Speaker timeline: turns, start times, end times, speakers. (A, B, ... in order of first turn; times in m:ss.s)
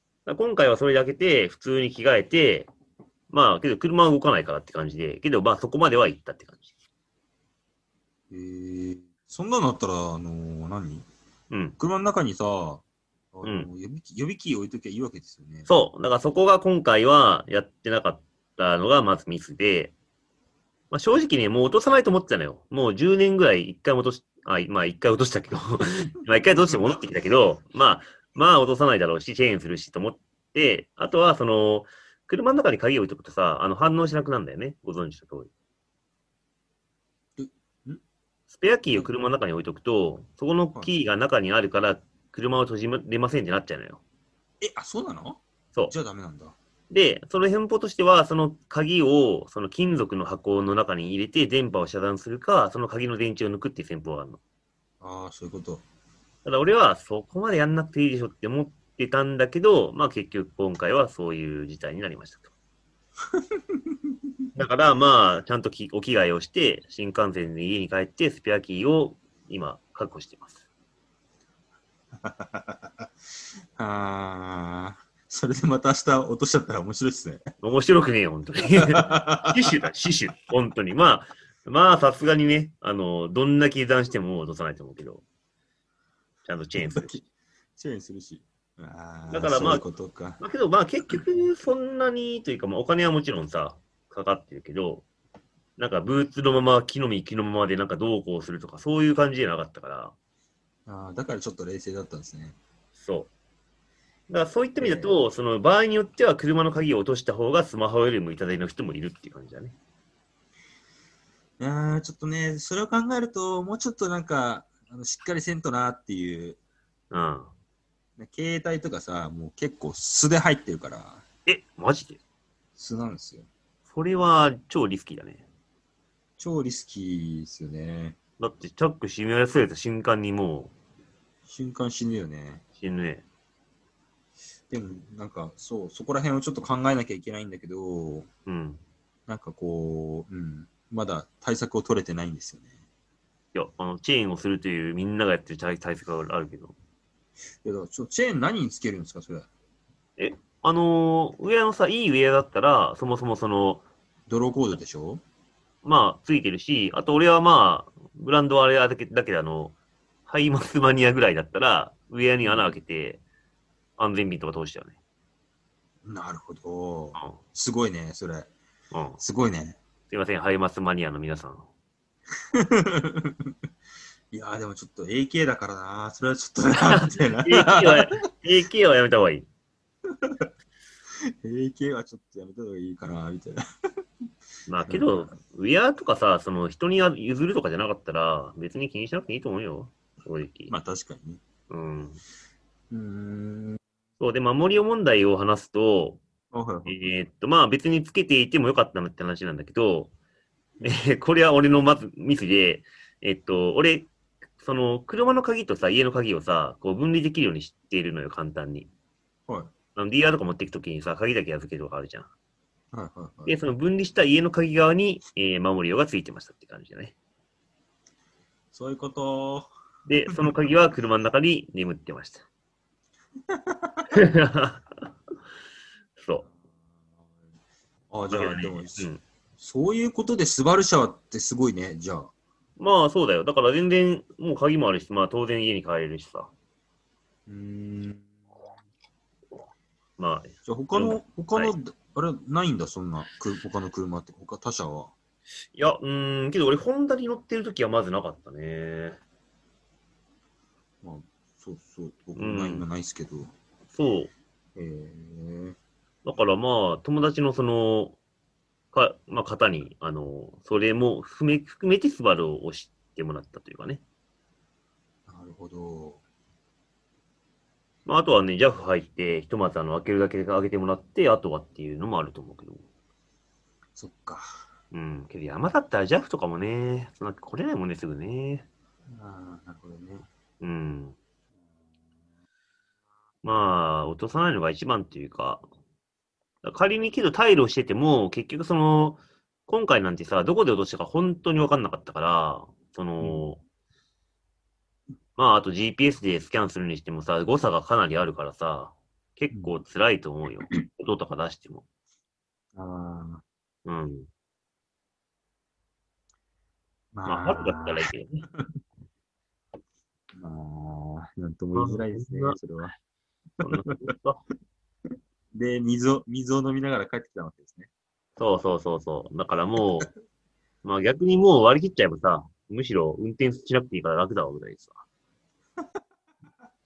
0:00.2-0:02.7 A
0:03.3-0:06.7 A
0:08.3-0:11.1 B
0:11.5-0:11.8 A
0:11.8-0:15.7 B
0:13.4-0:13.7 A
0:15.7-0:19.9 A
0:20.9-0:35.5 A
0:37.4-0:38.0 B
0:38.5-0:44.0 A
0:44.6-0:46.5 B
0:46.9-0:54.4 A
0:55.0-0:55.8 B
0:56.4-1:02.5 A
1:04.5-1:10.5 A
1:12.2-1:13.1 B
1:13.8-1:17.4 B
1:17.6-1:25.2 A
1:18.9-1:19.5 B
1:26.4-1:27.2 A
1:26.8-1:27.2 B
1:27.8-1:30.4 B
1:29.3-1:29.8 A
1:30.4-1:35.0 A
1:35.8-1:40.1 A
1:40.8-1:42.6 B
1:43.0-1:43.3 A
1:44.3-1:49.8 A
1:44.8-1:45.2 B
1:51.6-1:56.6 B
1:57.1-1:57.5 A
1:58.2-2:01.2 B
2:01.4-2:02.2 A
2:02.8-2:03.5 B
2:03.9-2:05.4 A
2:06.4-2:08.2 B
2:08.4-2:10.7 A
2:11.5-2:12.6 B
2:12.8-2:13.2 A
2:14.7-2:18.3 B
2:18.4-2:18.8 A
2:19.3-2:22.8 B
2:23.5-2:26.7 A
2:27.6-2:29.5 B
2:30.2-2:33.8 A
2:34.3-2:35.2 B
2:35.8-2:39.8 A
2:40.3-2:43.2 A
2:42.4-2:42.7 B
2:44.0-2:45.0 A
2:46.0-2:48.5 B
2:48.9-2:49.2 A
2:49.2-2:49.8 B
2:50.1-2:51.7 A
2:52.5-2:53.3 B
2:54.3-2:58.1 B
2:56.9-2:59.5 A
3:01.4-3:03.6 B
3:04.6-3:10.7 A
3:04.9-3:05.3 B
3:10.7-3:11.4 B
3:11.7-3:12.2 A
3:12.9-3:13.8 B
3:14.2-3:16.2 A
3:16.5-3:17.0 B
3:16.8-3:20.1 A
3:20.8-3:28.9 A
3:29.9-3:32.3 A
3:32.9-3:33.6 B
3:33.4-3:37.1 A
3:38.7-3:39.7 B
3:40.0-3:42.4 A
3:43.5-3:44.1 B
3:44.2-3:45.1 A
3:46.2-3:46.4 A
3:46.4-3:47.3 B
3:48.1-3:52.3 B
3:48.3-3:49.2 A
3:52.8-3:56.5 A
3:57.5-3:58.3 B
4:00.2-4:01.7 A
4:00.6-4:05.1 B
4:05.8-4:09.2 A
4:11.0-4:13.5 B
4:12.4-4:12.8 A
4:13.9-4:14.3 A
4:14.8-4:15.8 B
4:16.2-4:18.2 A
4:18.9-4:24.0 A
4:25.3-4:26.2 B
4:28.0-4:32.8 A
4:34.0-4:34.5 B
4:34.9-4:38.6 A
4:39.1-4:40.2 B
4:40.6-4:41.2 A
4:43.4-4:45.6 A
4:46.6-4:53.6 A
4:53.2-4:53.5 B
4:55.4-5:01.8 A
5:02.7-5:03.4 B
5:03.8-5:04.3 A
5:07.1-5:08.0 B
5:07.2-5:08.4 A
5:10.3-5:12.9 B
5:11.7-5:12.6 A
5:13.6-5:14.4 A
5:15.5-5:17.9 B
5:18.4-5:20.1 A
5:20.8-5:25.0 A